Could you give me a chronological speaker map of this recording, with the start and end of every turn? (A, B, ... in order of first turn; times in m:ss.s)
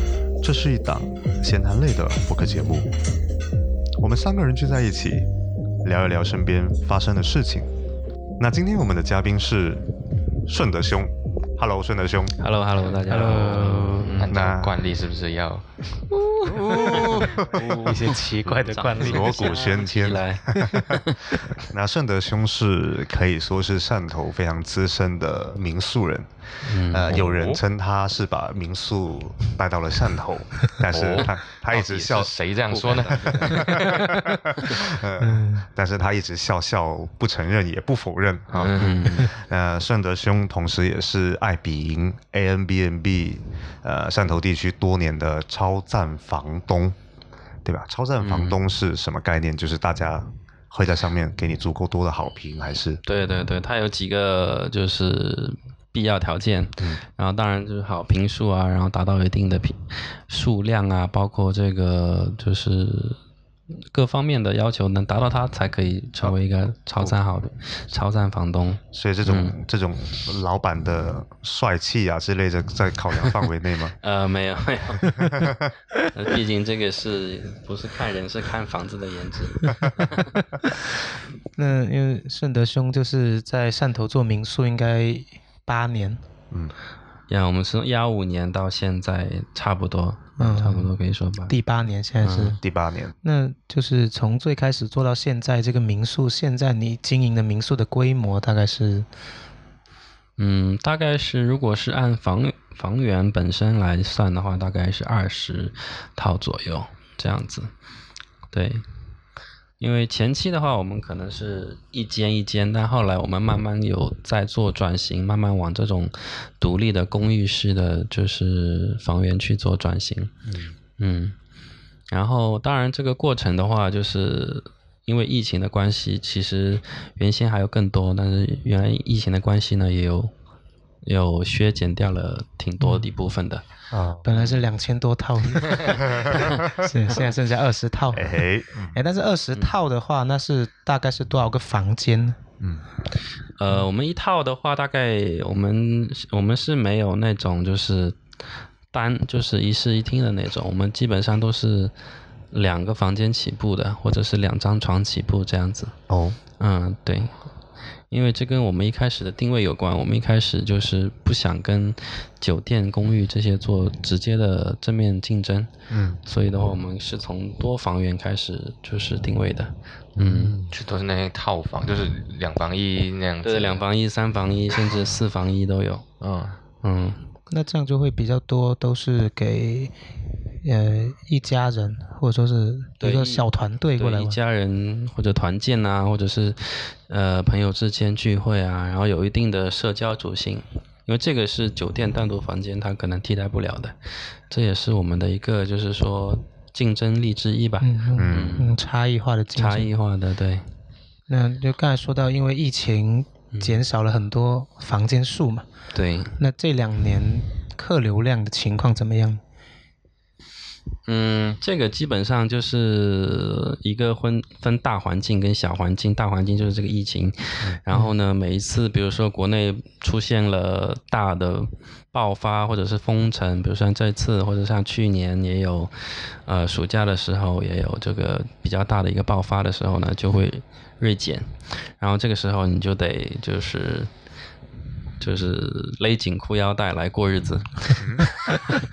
0:00.4-0:03.0 A
0:04.0-0:05.3 A
0:05.8-0:07.7 A
0:08.4-0:09.9 A
0:10.4-0:12.5 A
0:12.4-0:14.3 B
0:13.1-0:14.1 C
0:13.1-0:14.8 A
0:14.2-0:17.1 D
0:16.5-0:17.8 A
0:17.0-0:19.7 C
0:17.4-0:18.0 B
0:18.6-0:21.4 B
0:19.0-0:32.3 A
0:20.6-0:20.9 C
0:26.6-0:27.2 B
0:27.1-0:27.6 D
0:30.9-0:33.8 D
0:32.7-0:34.8 B
0:33.4-0:47.0 A
0:35.2-0:35.7 C
0:38.6-0:39.3 B
0:47.6-0:53.0 A
0:48.2-0:48.6 B
0:53.0-1:03.2 B
1:03.9-1:09.6 B
1:08.9-1:14.0 A
1:14.0-1:15.2 B
1:15.2-1:15.7 A
1:16.1-1:20.3 B
1:21.6-1:26.2 C
1:27.3-1:31.6 B
1:30.4-1:30.9 C
1:31.5-1:32.6 C
1:32.2-1:32.6 B
1:32.6-1:33.2 A
1:33.2-1:39.1 C
1:40.4-1:47.7 B
1:48.5-1:48.8 B
1:49.8-2:00.3 B
2:00.4-2:00.7 A
2:01.0-2:01.3 B
2:02.1-2:10.3 B
2:11.0-2:13.6 B
2:13.9-2:14.4 A
2:14.2-2:22.4 C
2:16.2-2:16.7 A
2:18.1-2:19.0 A
2:23.6-2:28.2 B
2:28.9-2:31.9 B
2:32.5-2:35.9 B
2:36.1-2:36.4 A
2:36.6-2:37.5 B
2:38.1-2:45.7 B
2:45.9-2:46.2 A
2:46.2-2:50.5 B
2:50.2-2:50.7 A
2:50.7-2:53.8 D
2:53.4-2:56.1 B
2:56.2-2:56.6 D
2:56.8-2:57.2 B
2:57.5-2:59.9 C
3:00.6-3:04.4 C
3:03.0-3:18.7 B
3:17.8-3:19.9 C
3:18.2-3:18.7 A
3:19.6-3:20.7 B
3:21.3-3:25.7 C
3:25.9-3:26.3 B
3:26.4-3:29.4 C
3:31.1-3:54.1 B
3:55.2-3:58.1 B
3:58.0-3:58.4 A